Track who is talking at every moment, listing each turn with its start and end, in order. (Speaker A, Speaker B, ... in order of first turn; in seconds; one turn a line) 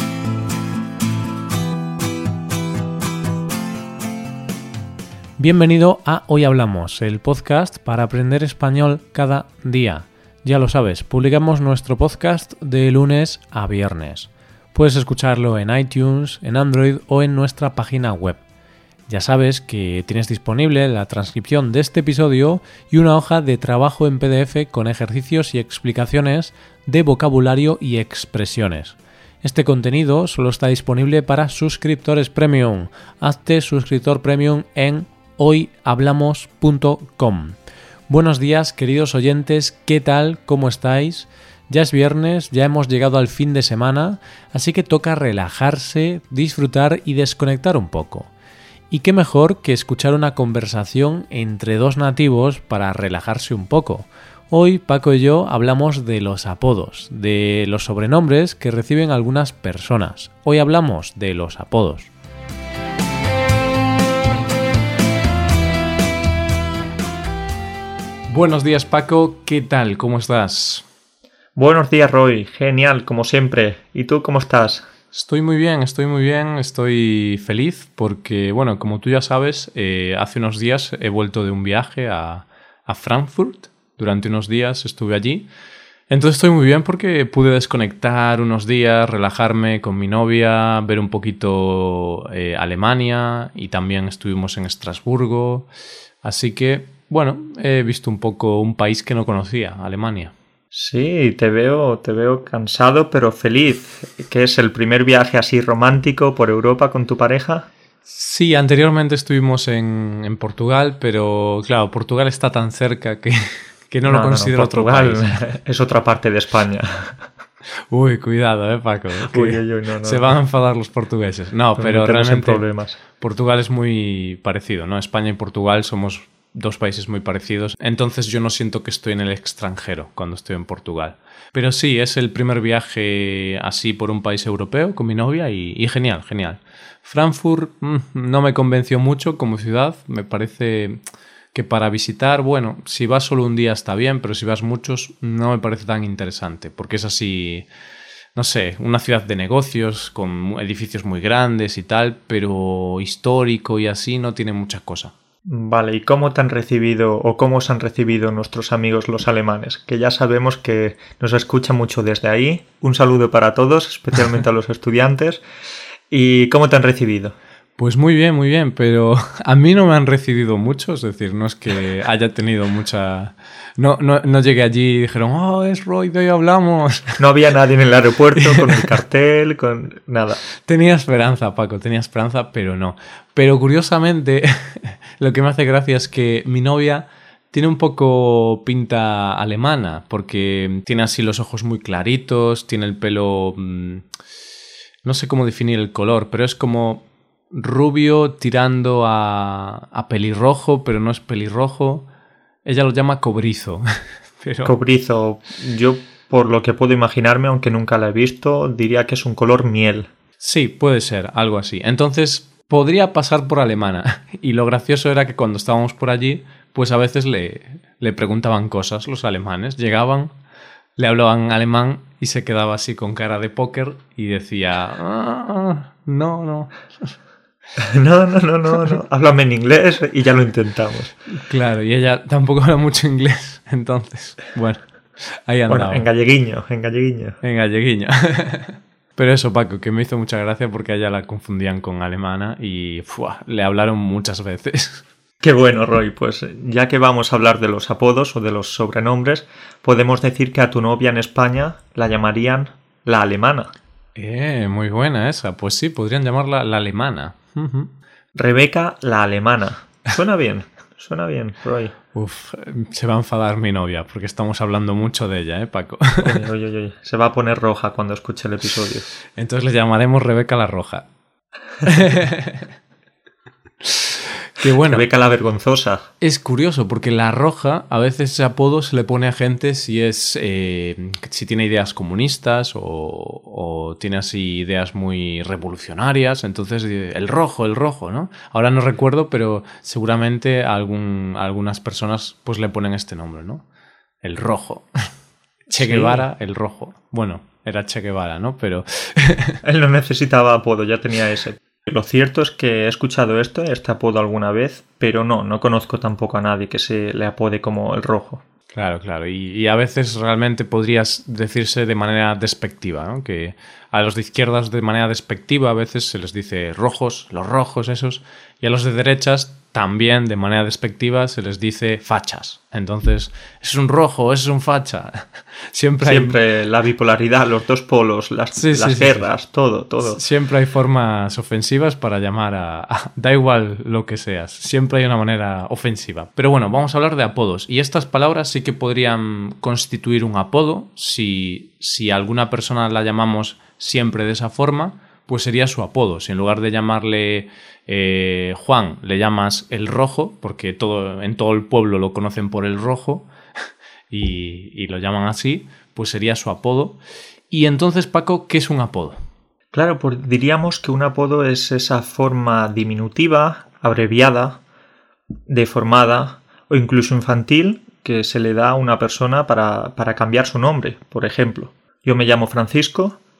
Speaker A: 5.4-18.4
Speaker A: 19.1-37.6
Speaker A: 38.1-48.3
Speaker A: 48.9-62.1
Speaker A: 68.3-70.8
Speaker B: 71.5-74.9
Speaker A: 75.1-85.5
Speaker A: 86.1-95.7
Speaker A: 96.2-100.3
Speaker B: 100.7-107.7
Speaker A: 108.0-115.4
Speaker B: 114.0-117.2
Speaker A: 117.9-141.0
Speaker B: 119.2-120.3
Speaker B: 121.8-123.0
Speaker A: 141.5-147.7
Speaker A: 148.3-155.1
Speaker B: 155.4-165.4
Speaker B: 166.1-167.4
Speaker A: 167.8-177.2
Speaker B: 177.2-180.4
Speaker A: 178.4-178.8
Speaker A: 180.6-194.0
Speaker A: 195.0-202.1
Speaker A: 202.6-203.8
Speaker A: 204.4-204.7
Speaker B: 204.6-210.1
Speaker A: 210.4-220.3
Speaker A: 221.0-227.1
Speaker B: 227.8-231.1
Speaker A: 231.3-234.8
Speaker A: 235.4-236.1
Speaker B: 235.7-237.4
Speaker A: 237.4-245.0
Speaker B: 245.4-253.7
Speaker A: 254.2-257.9
Speaker B: 258.3-261.9
Speaker A: 262.1-266.4
Speaker B: 266.2-269.1
Speaker A: 269.4-271.1
Speaker A: 271.8-272.6
Speaker A: 273.8-275.0
Speaker B: 274.9-276.1
Speaker A: 276.2-293.6
Speaker A: 294.2-294.9
Speaker A: 295.7-299.6
Speaker B: 295.7-296.3
Speaker B: 299.6-308.4
Speaker A: 308.7-326.4
Speaker B: 326.0-330.2
Speaker A: 328.6-329.3
Speaker A: 330.0-353.3
Speaker A: 354.1-357.0
Speaker A: 357.5-359.2
Speaker B: 359.7-364.6
Speaker B: 365.5-373.2